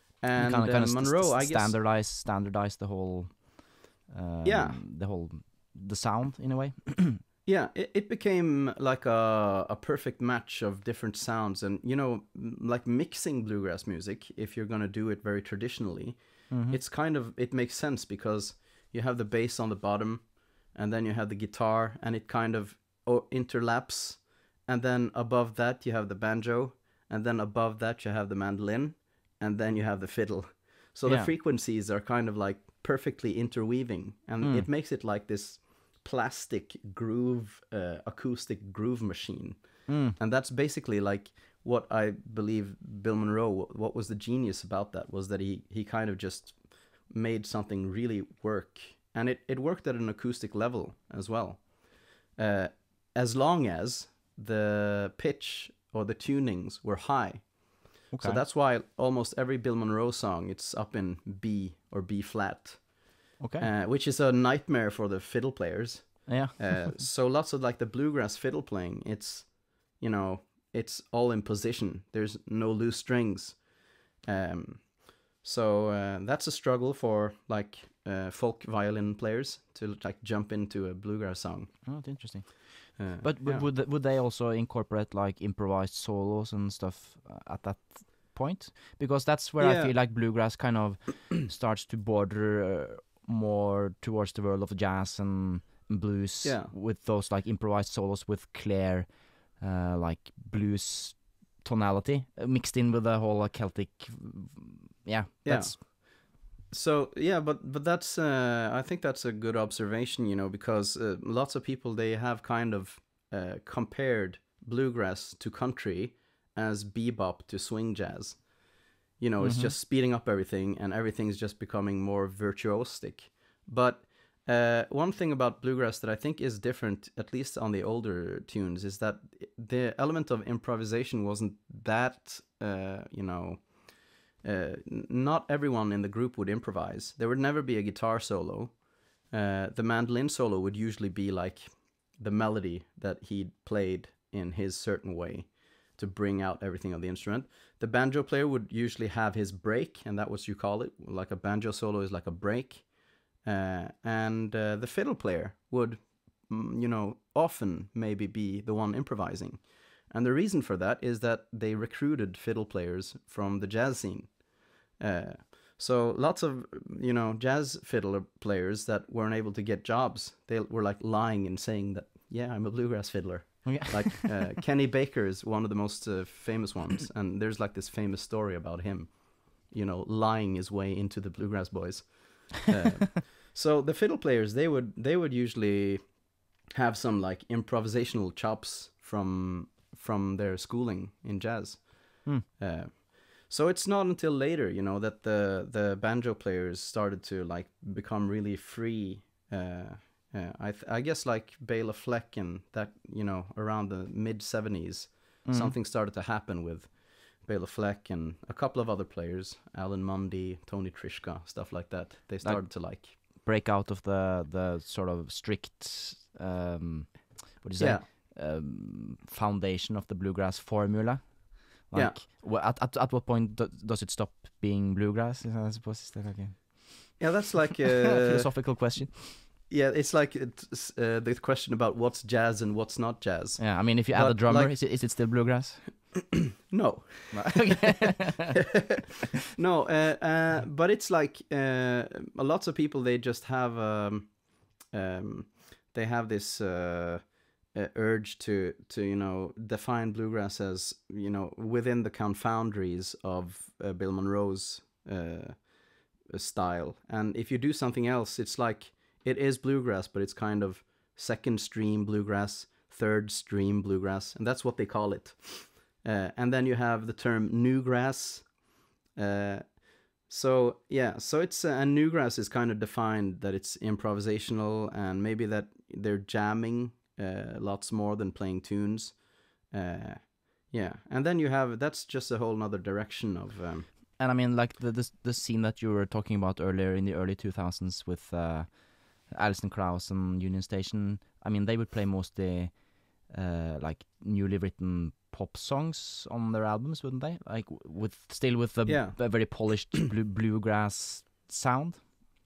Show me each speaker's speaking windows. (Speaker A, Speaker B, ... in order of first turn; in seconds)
Speaker A: 0.2-1.8, 4.4-4.8, 7.5-82.2, 83.0-83.7, 89.6-90.1, 96.4-96.8, 105.5-186.2, 186.8-213.2, 217.8-218.1, 221.9-222.2, 227.2-235.7, 236.7-237.9, 239.5-268.5, 269.1-284.1, 298.9-300.1
Speaker B: 0.3-7.2, 16.5-16.8, 31.0-31.3, 34.4-34.7, 39.9-40.2, 58.1-58.4, 63.4-63.7, 66.3-67.0, 81.8-105.8, 119.4-119.8, 173.7-174.5, 205.4-205.8, 212.4-227.4, 228.1-229.4, 233.6-235.8, 237.3-238.3, 284.2-302.0